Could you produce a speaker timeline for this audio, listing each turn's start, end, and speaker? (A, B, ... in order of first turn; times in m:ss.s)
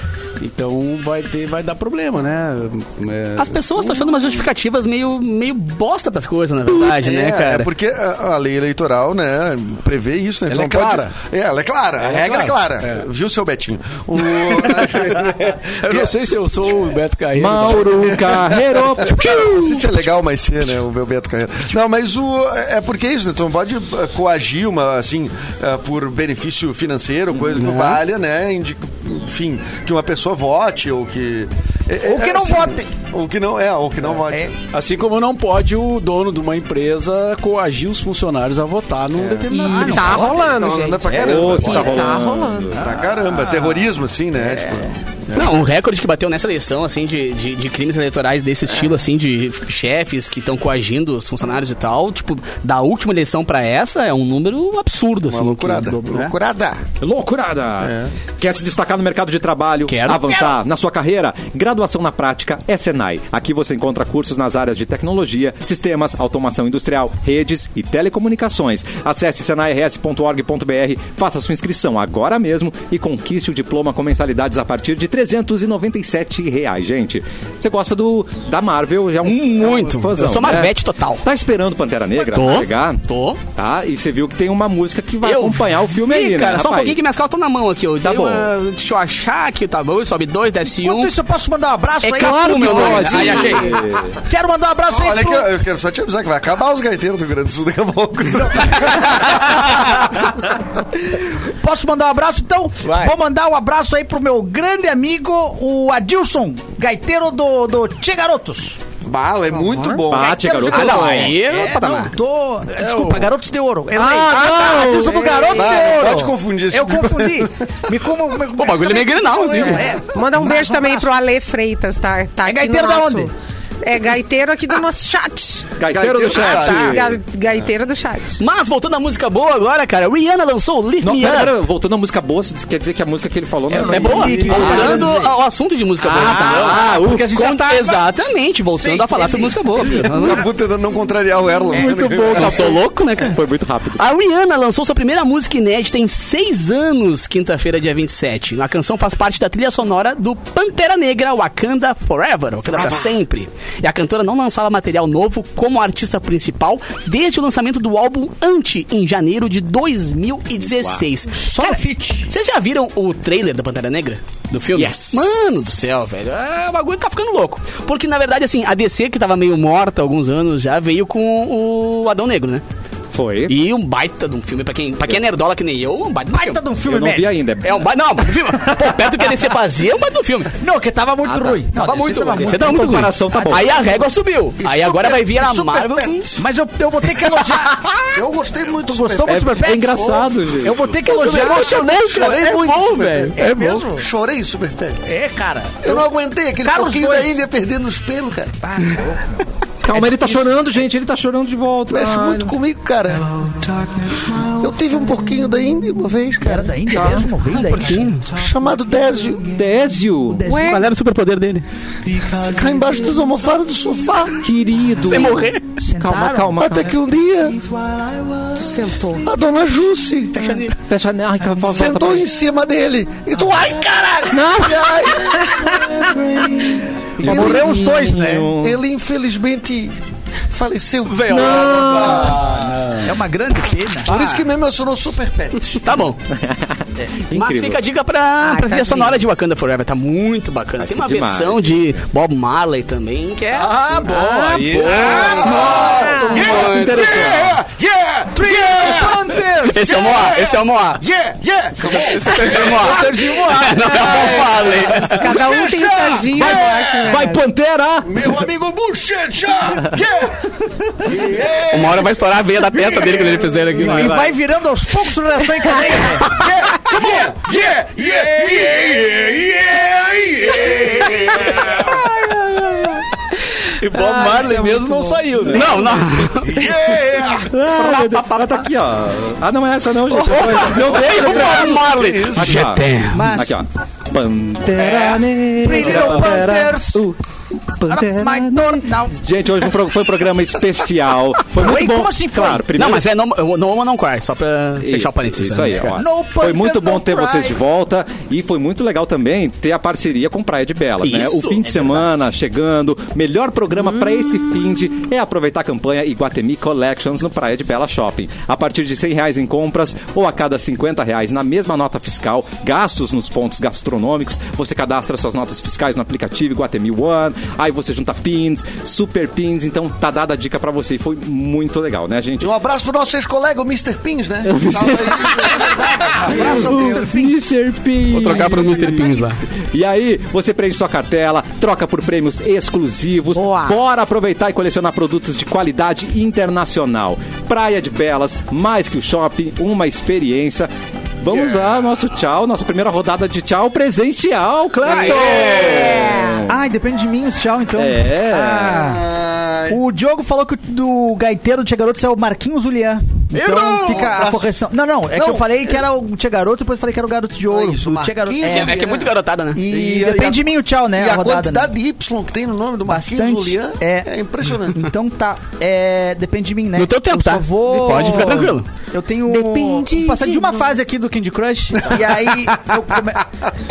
0:00.4-0:04.4 A
0:03.4-0:07.7 B
0:07.0-0:16.1 C
0:10.5-0:11.1 A
0:12.0-0:13.0 A
0:14.4-0:15.2 A
0:15.8-0:18.2 A
0:17.4-0:20.0 D
0:17.8-0:34.6 C
0:27.3-0:27.7 D
0:27.6-0:28.0 B
0:32.0-0:32.8 E
0:34.7-0:40.4 A
0:39.1-0:42.2 C
0:39.5-0:42.7 F
0:39.6-0:40.4 E
0:41.0-0:41.8 E
0:41.2-0:42.9 D
0:42.7-0:43.7 E
0:42.7-0:45.6 C
0:44.4-0:44.8 E
0:45.3-0:56.3 B
0:55.2-0:56.8 C
0:57.0-1:23.0 D
0:57.8-0:58.1 C
0:59.8-1:00.4 B
1:00.1-1:00.5 E
1:19.2-1:21.2 B
1:22.2-1:23.4 B
1:23.6-1:27.0 D
1:25.2-1:31.1 B
1:28.0-1:28.5 D
1:30.8-1:35.5 E
1:32.0-1:33.8 B
1:32.2-1:34.1 D
1:34.9-1:40.1 C
1:41.1-1:48.8 E
1:42.8-1:43.1 B
1:49.0-1:50.5 C
1:50.1-1:51.3 D
1:50.2-2:01.1 E
1:50.7-1:52.1 B
1:52.8-1:53.3 B
1:53.9-1:55.2 D
1:55.0-1:56.1 F
1:55.5-1:57.5 C
1:58.6-2:00.0 B
2:00.1-2:03.3 F
2:02.4-2:03.3 E
2:03.8-2:05.7 F
2:05.8-2:07.2 D
2:05.9-2:07.0 C
2:06.4-2:07.0 E
2:06.7-2:08.4 F
2:08.4-2:11.5 B
2:11.0-2:15.1 D
2:13.7-2:15.3 E
2:13.9-2:20.4 B
2:16.0-2:17.3 D
2:16.1-2:18.0 E
2:18.7-2:20.3 E
2:20.0-2:22.8 C
2:21.7-2:24.0 D
2:21.7-2:22.5 E
2:22.3-2:23.4 B
2:23.9-2:52.6 B
2:41.3-2:42.3 E
2:44.7-2:45.2 D
2:53.1-2:53.5 D
2:53.5-2:56.6 B
2:56.3-2:57.4 E
2:56.8-2:57.9 D
2:57.6-3:00.5 B
3:00.6-3:03.6 E
3:01.2-3:01.6 D
3:01.7-3:06.3 B
3:02.5-3:03.7 D
3:04.6-3:06.5 C
3:06.4-3:07.9 E
3:08.1-3:10.2 C
3:08.9-3:12.6 E
3:09.2-3:11.0 D
3:11.0-3:15.1 C
3:11.1-3:13.8 B
3:13.4-3:14.1 E
3:15.0-3:16.1 E
3:15.8-3:18.6 C
3:16.6-3:17.4 E
3:18.6-3:20.5 E
3:19.8-3:22.6 D
3:21.9-3:23.5 C
3:24.3-3:27.1 C
3:26.4-3:28.5 E
3:27.5-3:28.2 B
3:28.3-3:29.5 C
3:29.5-3:30.4 D
3:30.4-3:30.7 E
3:30.4-3:30.9 F
3:30.5-3:31.6 B
3:32.3-3:34.4 C
3:34.4-3:37.0 D
3:35.1-3:35.6 B
3:35.8-3:36.9 E
3:36.6-3:37.6 C
3:37.5-3:38.6 E
3:38.6-3:39.3 F
3:39.2-3:40.4 C
3:40.3-3:40.7 B
3:40.7-3:42.3 D
3:41.5-3:45.8 C
3:44.3-3:48.8 D
3:47.2-3:48.0 C
3:47.2-3:48.5 E
3:48.5-3:51.6 C
3:51.0-3:52.7 B
3:51.3-3:52.6 D
3:52.5-3:53.1 A
3:53.0-3:54.4 E
3:54.0-3:55.9 C
3:55.8-3:56.2 B
3:56.3-3:57.8 D
3:57.3-4:03.8 B
3:58.5-3:59.0 F
4:00.8-4:01.8 D
4:03.5-4:06.8 A
4:04.2-4:07.6 D
4:04.8-4:07.4 B
4:04.9-4:13.2 C
4:04.9-4:06.0 E
4:06.0-4:06.4 F
4:08.3-4:10.3 E
4:09.7-4:11.0 B
4:11.8-4:15.3 B
4:12.3-4:14.7 A
4:13.8-4:17.2 C
4:15.1-4:17.4 F
4:16.3-4:18.3 D
4:18.0-4:20.4 C
4:21.0-4:22.2 C
4:21.7-4:24.2 B
4:22.7-4:23.8 C
4:23.7-4:26.4 E
4:23.8-4:24.3 D
4:26.2-4:32.0 C
4:28.4-4:29.2 A
4:31.5-4:33.0 A
4:33.8-4:36.0 A
4:34.1-4:35.2 F
4:35.5-4:36.7 B
4:36.4-4:37.5 C
4:37.5-4:47.2 D
4:37.5-4:38.6 B
4:40.1-4:43.4 B
4:40.7-4:42.8 C
4:43.1-4:43.6 E
4:45.6-4:47.1 E
4:47.7-4:53.0 D
4:47.8-4:49.2 E
4:51.5-4:52.7 E
4:52.7-4:56.0 B
4:54.8-5:22.5 D
4:55.9-4:57.6 E
5:01.0-5:02.0 B
5:22.4-5:26.9 C
5:24.5-5:25.5 D
5:25.6-5:27.6 E
5:26.2-5:46.5 D
5:28.1-5:29.4 B
5:28.2-5:29.3 E
5:33.3-5:33.8 F
5:44.8-5:46.1 B
5:45.4-5:46.4 F
5:46.5-5:49.0 E
5:47.8-5:48.8 D
5:48.7-5:49.8 C
5:49.7-5:58.9 E
5:53.3-5:54.1 B
5:53.8-5:54.5 C
5:55.1-5:55.8 C
5:57.5-5:59.1 C
5:58.4-5:59.6 B
5:59.5-6:01.7 E
5:59.6-6:04.9 C
6:02.9-6:13.2 E
6:06.7-6:08.6 B
6:07.7-6:08.4 F
6:09.3-6:10.7 F
6:11.8-6:12.5 C